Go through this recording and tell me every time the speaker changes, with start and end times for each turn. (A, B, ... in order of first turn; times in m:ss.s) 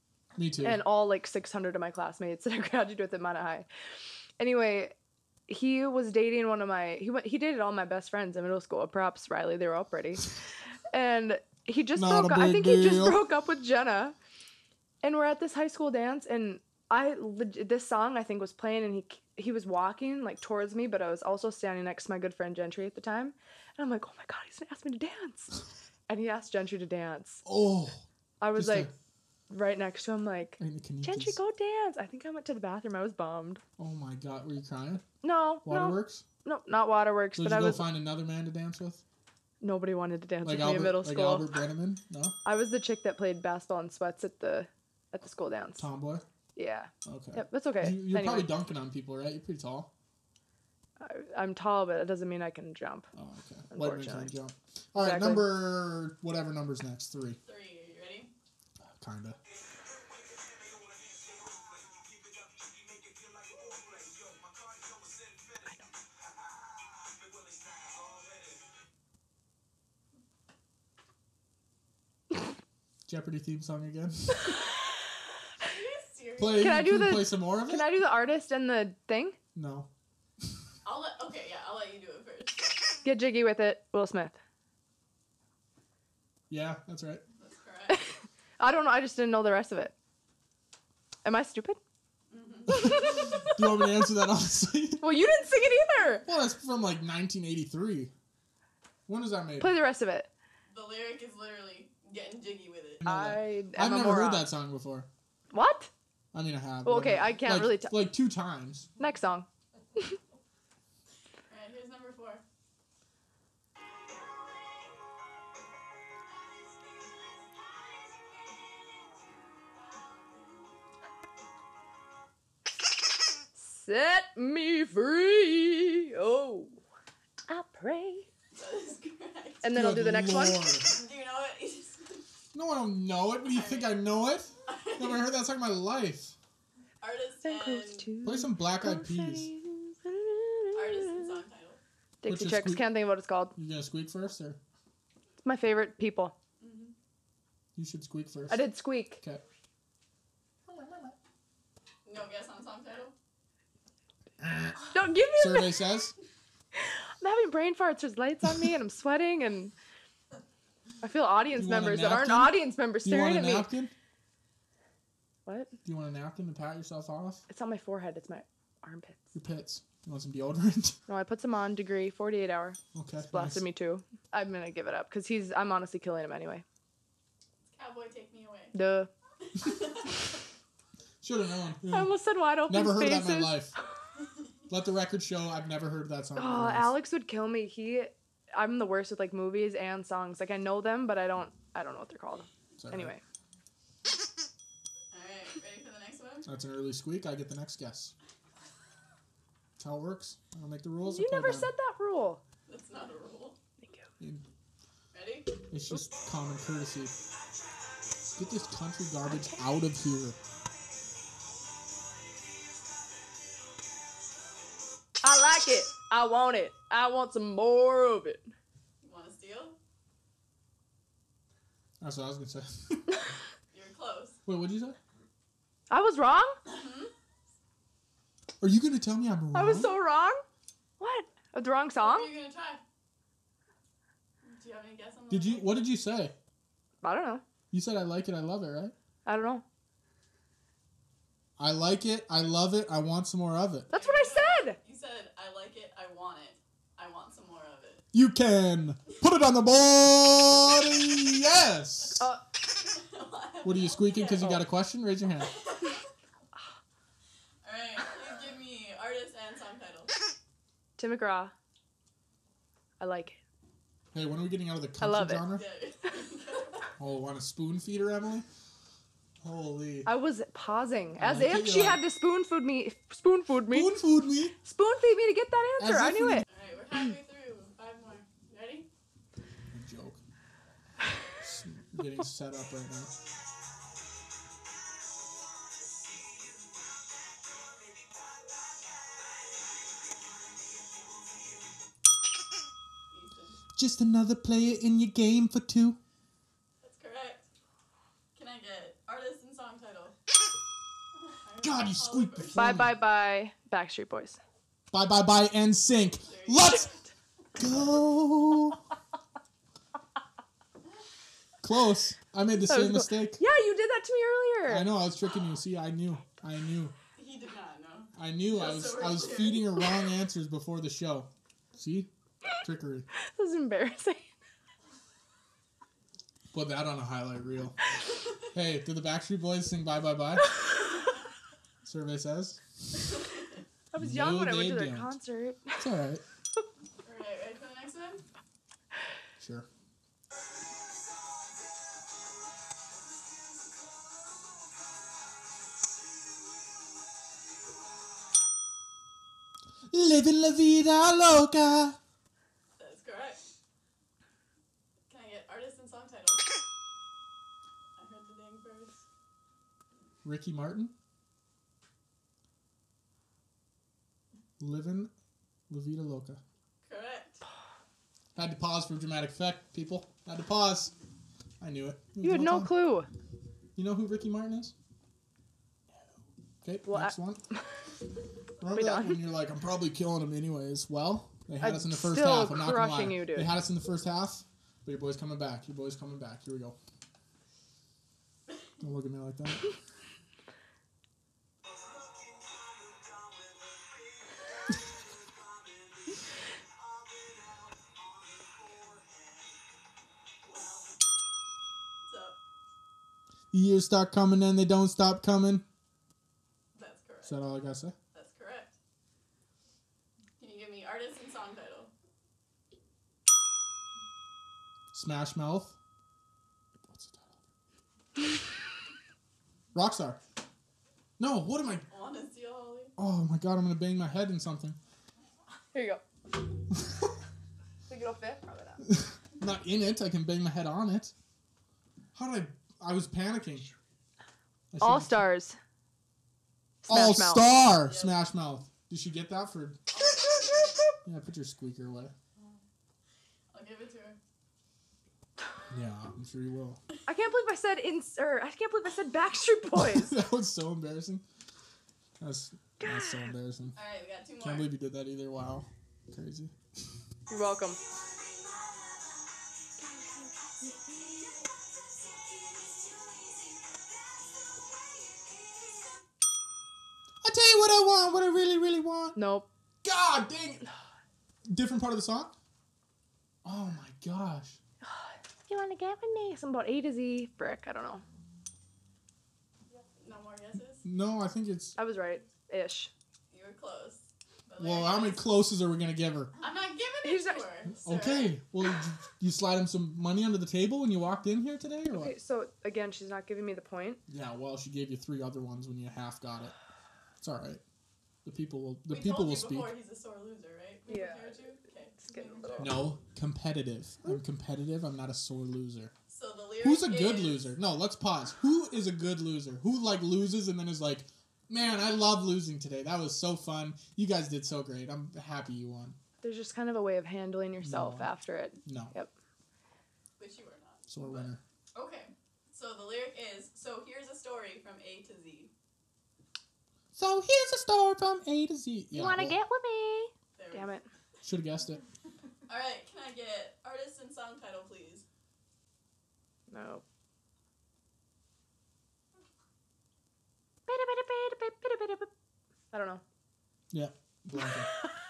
0:00.4-0:00.8 A
0:00.6-0:03.7 B
0:04.4-0:04.9 B
0:05.5-0:10.3 B
0:10.9-0:14.2 B
0:12.0-0:13.2 A
0:15.0-0:27.4 B
0:27.4-0:28.9 A
0:28.4-0:28.9 B
0:29.5-0:33.6 B
0:30.6-0:31.4 A
0:33.8-0:35.0 A
0:35.2-0:38.0 B
0:35.6-0:36.2 A
0:37.4-0:39.0 A
0:39.6-0:41.5 B
0:40.4-0:42.4 A
0:42.4-0:45.9 B
0:45.8-0:46.2 A
0:46.6-0:48.5 B
0:47.1-0:49.9 A
0:51.0-0:53.1 B
0:53.1-0:57.4 A
0:53.7-0:54.4 B
0:55.0-0:55.5 B
0:57.4-0:58.3 C
0:58.9-0:59.4 A
1:13.1-1:14.5 A
1:15.6-1:16.7 C
1:16.4-1:17.9 A
1:16.5-1:19.4 B
1:19.6-1:19.9 A
1:20.8-1:23.0 C
1:23.0-1:24.4 B
1:26.5-1:27.2 A
1:27.4-1:28.1 C
1:27.9-1:29.9 B
1:31.2-1:31.8 B
1:32.3-1:33.4 C
1:32.7-1:33.9 B
1:32.9-1:35.2 A
1:35.0-1:36.3 B
1:36.3-1:38.1 A
1:39.1-1:39.8 A
1:39.6-1:40.3 B
1:40.7-1:43.0 C
1:43.0-1:45.1 A
1:43.0-1:44.5 B
1:45.5-1:45.9 B
1:46.3-1:48.9 A
1:46.8-1:48.0 B
1:49.0-1:50.2 B
1:51.5-1:52.4 C
1:56.8-1:58.8 C
2:03.6-2:06.8 B
2:07.5-2:08.3 B
2:08.6-2:09.7 C
2:09.6-2:10.8 B
2:09.7-2:11.0 A
2:10.8-2:12.2 C
2:12.5-2:16.4 A
2:13.4-2:14.1 C
2:14.6-2:15.3 C
2:17.0-2:18.2 C
2:17.4-2:21.4 B
2:18.2-2:19.5 A
2:20.7-2:21.8 C
2:22.2-2:23.6 B
2:22.3-2:23.0 A
2:23.6-2:24.6 A
2:25.4-2:26.3 B
2:26.6-2:26.9 C
2:27.8-2:28.6 A
2:28.5-2:29.2 B
2:30.7-2:31.1 A
2:32.0-2:33.1 C
2:34.4-2:36.2 A
2:34.9-2:35.9 B
2:36.8-2:39.7 B
2:41.0-2:43.7 B
2:41.5-2:43.9 A
2:45.5-2:45.7 B
2:45.8-2:47.4 A
2:47.5-2:49.2 B
2:49.3-2:51.0 A
2:51.1-2:52.8 B
2:52.9-2:53.6 A
2:53.3-2:56.6 B
2:57.7-2:58.8 C
2:58.7-2:59.1 B
2:59.5-3:00.2 C
3:01.2-3:02.2 A
3:01.9-3:03.7 B
3:02.7-3:03.7 A
3:04.7-3:07.0 A
3:06.4-3:13.2 B
3:12.8-3:13.1 A
3:15.1-3:16.5 C
3:16.5-3:18.1 A
3:19.8-3:21.7 A
3:21.0-3:22.4 B
3:22.7-3:23.6 C
3:23.8-3:24.1 B
3:25.1-3:25.5 C
3:25.7-3:27.1 A
3:28.4-3:30.4 A
3:29.3-3:29.7 B
3:35.2-3:38.5 B
3:39.0-3:39.8 C
3:42.0-3:43.2 A
3:43.7-3:44.4 C
3:44.5-3:45.0 A
3:45.9-3:46.6 B
3:46.7-3:47.1 C
3:48.6-3:49.9 A
3:49.5-3:50.4 B
3:51.0-3:52.4 B
3:52.0-3:52.8 C
3:54.4-3:55.8 C
3:55.3-3:56.3 A
3:57.0-3:57.4 B
3:57.7-3:58.9 A
3:59.3-3:59.6 B
4:01.6-4:03.9 A
4:03.9-4:04.8 B
4:03.9-4:08.0 C
4:08.1-4:12.2 A
4:12.8-4:14.7 C
4:13.6-4:15.5 A
4:15.4-4:16.0 C
4:17.6-4:20.1 C
4:21.0-4:21.5 B
4:23.0-4:23.4 B
4:24.1-4:25.7 A
4:25.0-4:25.4 B
4:25.5-4:26.9 C
4:27.0-4:28.5 A
4:29.4-4:30.1 A
4:30.1-4:36.4 B
4:31.2-4:32.0 A
4:33.7-4:34.6 A
4:35.8-4:36.4 A
4:36.5-4:38.9 C
4:39.7-4:40.2 A
4:41.4-4:43.1 A
4:53.1-4:53.6 C
4:53.8-4:56.0 A
4:56.8-4:57.5 C
4:58.3-5:00.2 C
5:01.2-5:02.6 C
5:01.6-5:03.0 A
5:02.6-5:04.4 B
5:04.9-5:06.9 A
5:06.2-5:07.0 C
5:07.6-5:08.8 A
5:11.6-5:13.4 A
5:12.7-5:14.9 B
5:14.7-5:17.0 A
5:17.2-5:20.1 C
5:18.2-5:22.1 A
5:22.6-5:23.1 A
5:23.2-5:24.3 B
5:26.5-5:27.8 A
5:28.5-5:30.6 A
5:31.8-5:33.0 A
5:33.9-5:35.8 B
5:34.0-5:35.1 A
5:35.8-5:36.2 A
5:37.0-5:38.2 C
5:39.4-5:39.7 A
5:49.9-5:52.0 A
5:52.8-5:53.4 C
5:55.1-5:56.5 C
5:58.0-5:59.0 C
6:00.2-6:00.9 A
6:04.6-6:05.1 A
6:05.7-6:06.4 A
6:06.8-6:07.4 C
6:08.4-6:11.0 A
6:11.6-6:12.8 A
6:12.2-6:13.1 B
6:13.8-6:14.8 A
6:16.6-6:17.4 A
6:16.9-6:17.6 B
6:18.6-6:26.8 A
6:18.7-6:19.3 B
6:21.6-6:23.5 B
6:28.8-6:29.7 A
6:42.1-6:42.4 C
6:43.5-6:45.6 A
6:46.8-6:47.6 C
6:47.2-6:48.0 A
6:48.1-6:48.8 C
6:50.4-6:51.9 C
6:54.9-6:55.8 A
6:56.9-6:57.4 A
6:59.7-7:00.2 A
7:01.2-7:01.9 A
7:01.9-7:02.9 C
7:03.0-7:04.8 A
7:05.7-7:06.0 B
7:07.9-7:08.9 B
7:09.4-7:11.1 A
7:12.2-7:13.7 A
7:14.7-7:15.2 A
7:14.8-7:15.6 B
7:16.8-7:17.6 B
7:16.9-7:19.8 A
7:17.8-7:18.3 C
7:19.9-7:20.9 C
7:21.0-7:22.1 A
7:23.5-7:24.2 C
7:25.7-7:26.8 A
7:27.1-7:30.2 B
7:29.8-7:31.2 A
7:32.2-7:33.8 A
7:32.8-7:33.3 B
7:33.7-7:34.7 C
7:34.4-7:36.5 A
7:37.3-7:37.8 B
7:39.8-7:41.1 B
7:47.2-7:49.2 A
7:49.2-7:49.5 B
7:49.8-7:50.7 A
7:51.5-7:52.3 A
7:53.4-7:54.6 A
7:54.8-7:58.0 B
8:00.0-8:00.8 C
8:00.8-8:01.8 A
8:01.8-8:02.9 B
8:03.3-8:05.3 C
8:04.6-8:06.3 A
8:06.4-8:08.4 C
8:07.0-8:07.5 B
8:07.8-8:12.2 A
8:11.9-8:14.0 B
8:14.1-8:16.6 A
8:17.2-8:17.6 A
8:18.2-8:19.7 A
8:18.9-8:22.9 C
8:20.9-8:21.4 B
8:22.0-8:22.9 B
8:22.6-8:25.9 A
8:26.1-8:27.5 C
8:26.6-8:36.0 A
8:36.2-8:39.1 B
8:37.6-8:38.1 A
8:38.6-8:39.0 A
8:40.2-8:45.5 C
8:40.9-8:41.4 A
8:47.0-8:49.4 A
8:48.9-8:50.9 B
8:50.4-8:50.8 C
8:51.2-8:51.8 A
8:52.5-8:55.0 C
8:56.5-8:56.8 B
9:00.7-9:02.1 B
9:02.7-9:03.0 B
9:03.7-9:04.7 A